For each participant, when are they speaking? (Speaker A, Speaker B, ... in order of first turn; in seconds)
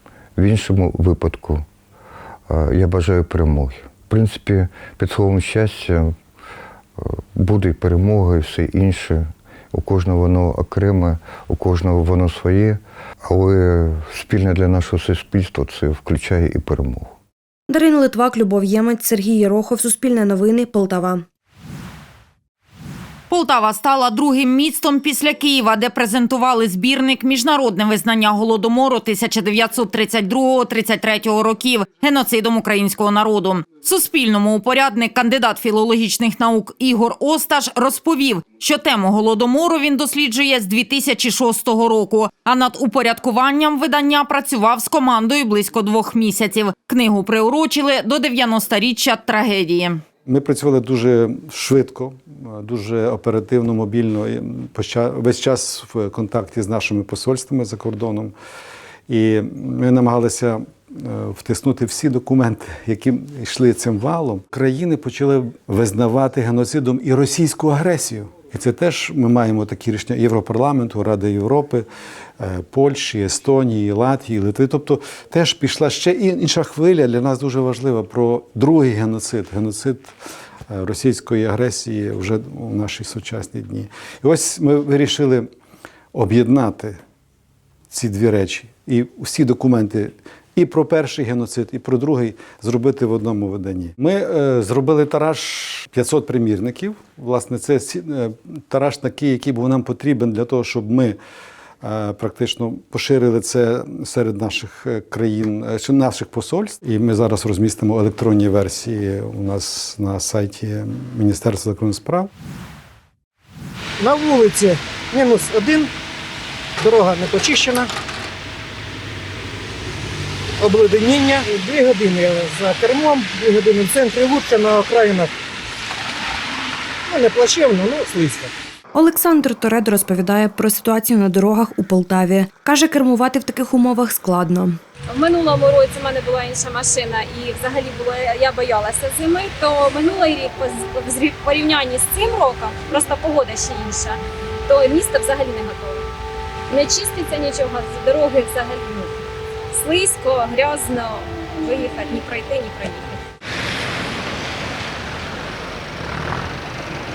Speaker A: 0.4-1.6, 2.5-6.1, 7.0-17.1
Speaker B: 17.7-21.2, 128.9-134.8
Speaker C: 23.3-50.0
Speaker D: 50.2-58.3, 59.1-71.8, 72.4-80.1, 80.7-85.5, 86.1-87.0, 87.9-101.2, 101.8-112.3
Speaker E: 114.0-115.9, 116.8-117.9, 120.6-125.3, 127.1-128.5
Speaker F: 135.1-146.1, 146.7-149.2, 149.7-153.2